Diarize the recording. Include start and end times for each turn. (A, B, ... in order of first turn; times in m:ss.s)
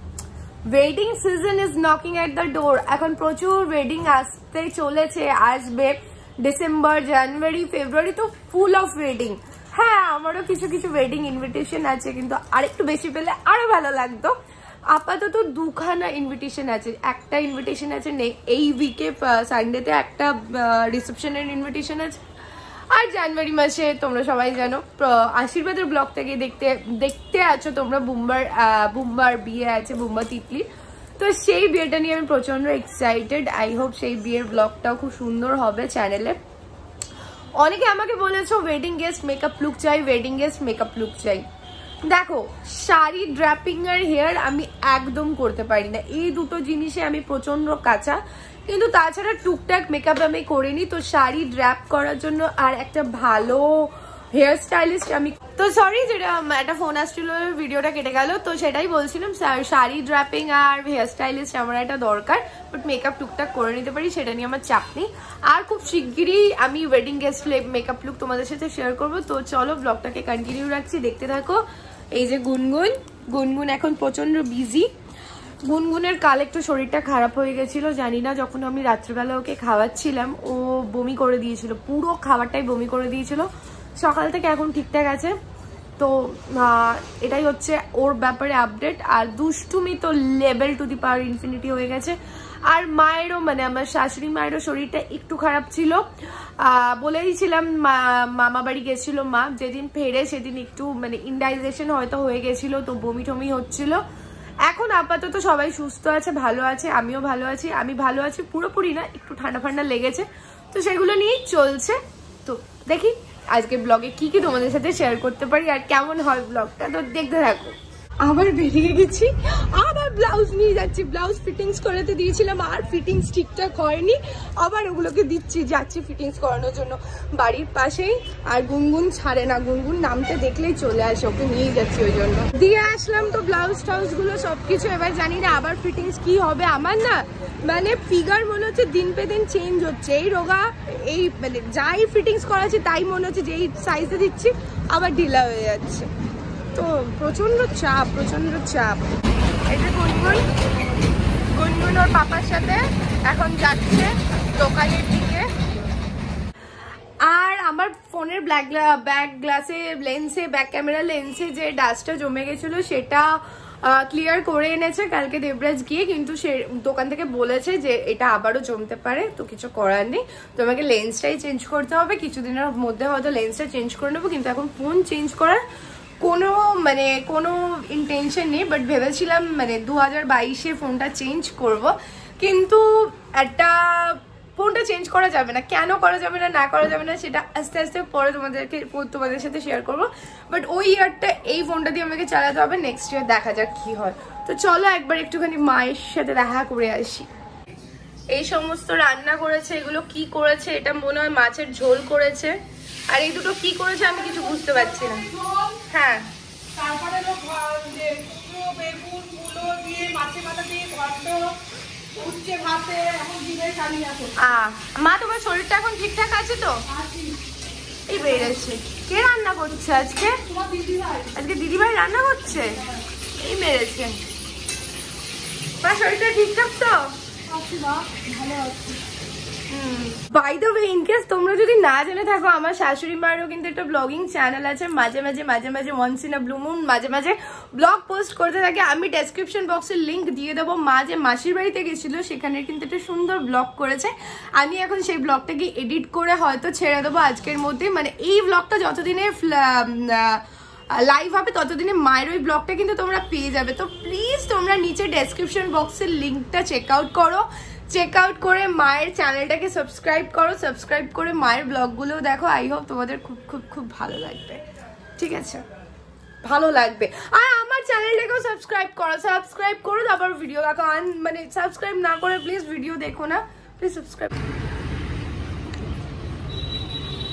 0:00.6-0:14.4 A
0:14.9-0:22.2 A
0:22.9-0:36.4 A
0:37.6-0:41.4 A
0:42.0-1:14.9 A
1:15.6-1:25.4 A
1:26.0-1:44.0 A
1:44.6-2:26.1 A
2:26.7-2:29.1 A
2:29.7-2:30.5 A
2:31.5-2:35.5 A
2:37.2-2:55.6 A
2:56.2-3:17.3 A
3:18.3-3:25.3 A
3:24.6-3:25.8 B
3:25.8-3:26.3 A
3:26.7-3:34.4 B
3:34.3-3:36.8 A
3:36.9-3:37.4 B
3:38.1-3:40.5 A
3:40.5-3:41.3 B
3:41.3-3:44.2 A
3:45.8-3:47.2 A
3:47.5-3:49.0 B
3:49.7-4:24.6 A
4:25.2-4:25.6 A
4:26.4-4:34.4 A